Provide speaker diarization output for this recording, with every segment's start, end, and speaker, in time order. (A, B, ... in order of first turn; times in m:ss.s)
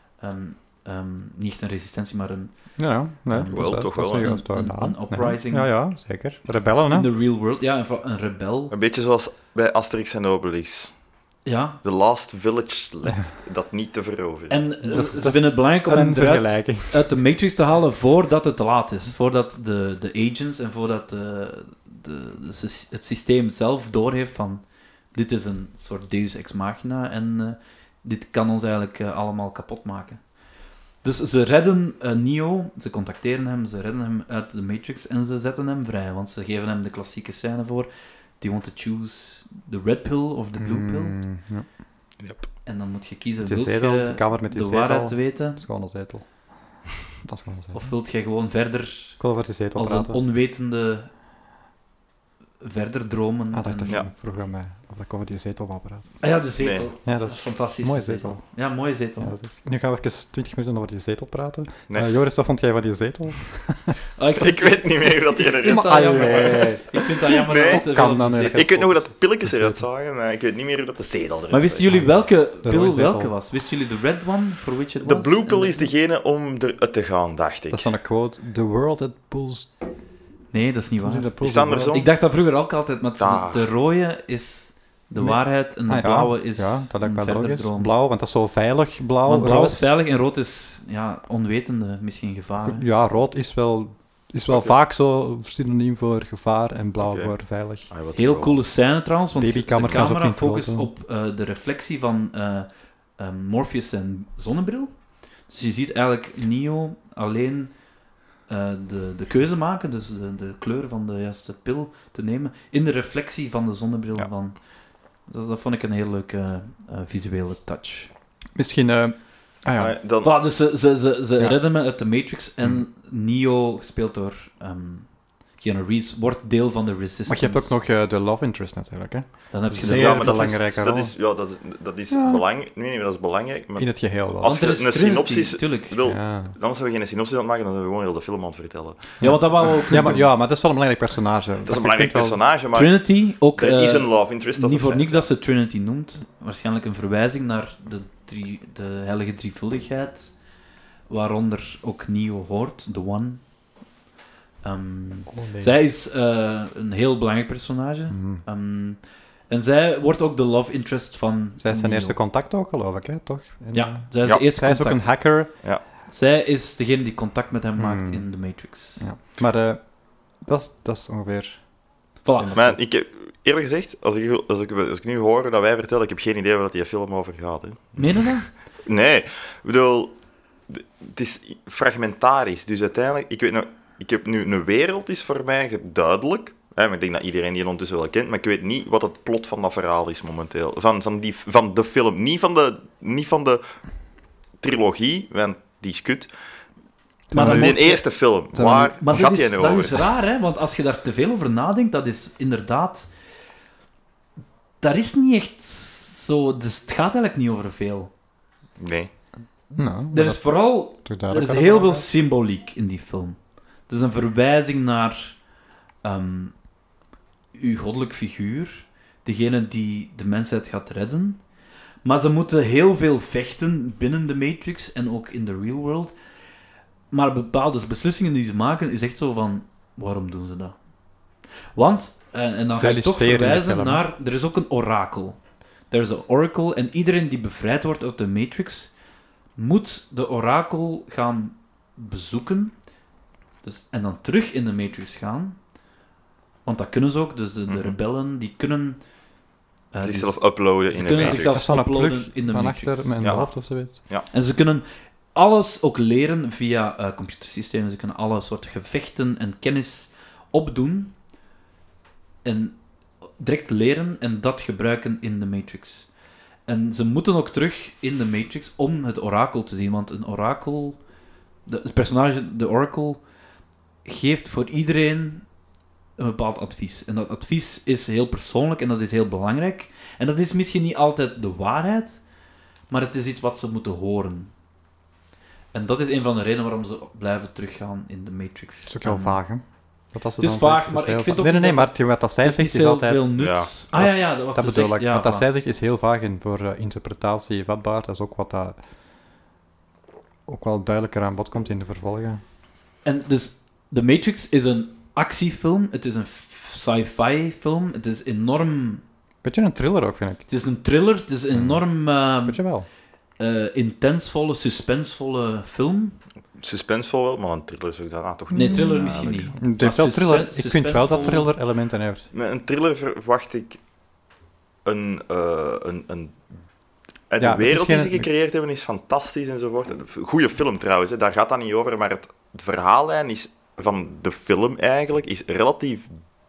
0:00.2-0:05.7 A
0:02.8-0:07.1 B
0:03.5-0:04.4 C
0:06.9-0:08.7 A
0:08.7-0:10.9 C
0:11.4-0:11.8 A
0:11.8-0:14.6 C
0:14.5-0:24.6 A
0:14.8-0:17.1 B
0:25.1-0:30.2 A
0:31.0-0:41.2 A
0:40.6-0:41.6 B
0:42.2-0:42.5 C
0:42.6-0:45.6 A
0:43.4-0:47.9 B
0:47.7-0:49.2 A
0:49.2-0:50.2 B
0:49.7-0:51.1 A
0:52.6-0:54.0 A
0:53.5-0:56.2 B
0:56.2-0:59.3 A
0:56.6-0:56.9 C
0:57.0-0:58.4 B
0:59.2-1:04.0 B
1:04.2-1:08.6 A
1:04.3-1:07.9 C
1:05.6-1:09.8 B
1:08.5-1:11.9 C
1:11.5-1:15.9 A
1:11.9-1:13.3 B
1:15.0-1:17.9 C
1:17.7-1:19.7 B
1:20.5-1:21.3 A
1:21.0-1:22.0 B
1:21.4-1:22.1 C
1:21.9-1:27.9 A
1:23.2-1:23.7 C
1:25.2-1:29.9 B
1:29.2-1:32.8 A
1:32.6-1:37.9 B
1:34.5-1:34.7 C
1:37.0-1:37.3 C
1:37.9-1:38.6 C
1:38.1-1:44.9 A
1:39.4-1:40.9 B
1:45.5-1:47.7 A
1:48.5-1:54.6 A
1:55.3-1:58.1 A
1:58.5-2:00.0 B
1:59.8-2:00.4 C
2:00.2-2:07.8 A
2:07.3-2:11.1 B
2:09.5-2:10.6 A
2:09.8-2:20.2 C
2:12.1-2:12.4 B
2:13.8-2:14.6 B
2:14.4-2:16.0 A
2:16.0-2:16.5 B
2:19.2-2:20.2 A
2:19.2-2:22.4 B
2:21.6-2:25.2 C
2:22.7-2:30.3 A
2:31.1-2:33.4 A
2:34.6-2:42.2 A
2:35.3-2:35.8 B
2:38.1-2:38.4 B
2:41.6-2:45.5 B
2:43.7-2:45.0 A
2:46.0-2:49.0 A
2:47.8-2:51.7 B
2:52.2-2:52.6 A
2:52.2-2:52.8 B
2:52.5-2:58.3 C
2:58.0-2:58.5 A
2:58.8-3:00.1 C
3:00.7-3:13.6 C
3:14.6-3:16.3 C
3:17.3-3:18.0 B
3:17.3-3:18.0 A
3:17.4-3:20.0 C
3:18.5-3:19.0 B
3:19.0-3:23.1 A
3:24.8-3:28.1 A
3:28.8-3:29.1 C
3:29.7-3:32.1 B
3:30.1-3:35.4 A
3:36.0-3:36.5 A
3:37.5-3:41.4 A
3:42.0-3:46.1 A
3:47.1-3:50.8 A
3:51.7-3:55.4 A
3:52.7-3:54.0 B
3:55.9-3:58.9 A
3:59.6-4:02.7 A
4:03.6-4:05.6 A
4:06.6-4:09.0 A
4:07.7-4:08.0 C
4:09.9-4:13.1 A
4:10.0-4:11.6 C
4:11.2-4:14.0 B
4:13.2-4:14.3 C
4:14.3-4:21.2 A
4:22.4-4:22.8 A
4:23.4-4:26.1 A
4:26.7-4:31.0 A
4:31.6-4:33.2 A
4:34.0-4:35.5 A
4:36.2-4:42.2 A
4:42.9-4:44.5 A
4:45.7-4:49.4 A
4:48.9-4:53.3 B
4:50.4-4:55.4 A
4:53.4-4:53.7 C
4:53.9-4:58.8 B
5:00.5-5:02.4 B
5:03.0-5:09.0 A
5:09.4-5:10.4 B
5:10.5-5:12.6 A
5:11.5-5:12.9 B
5:13.4-5:16.2 A
5:16.6-5:19.5 C
5:18.5-5:21.5 A
5:18.5-5:22.3 B
5:22.3-5:23.8 C
5:24.8-5:26.4 C
5:27.3-5:36.1 C
5:27.4-5:28.3 B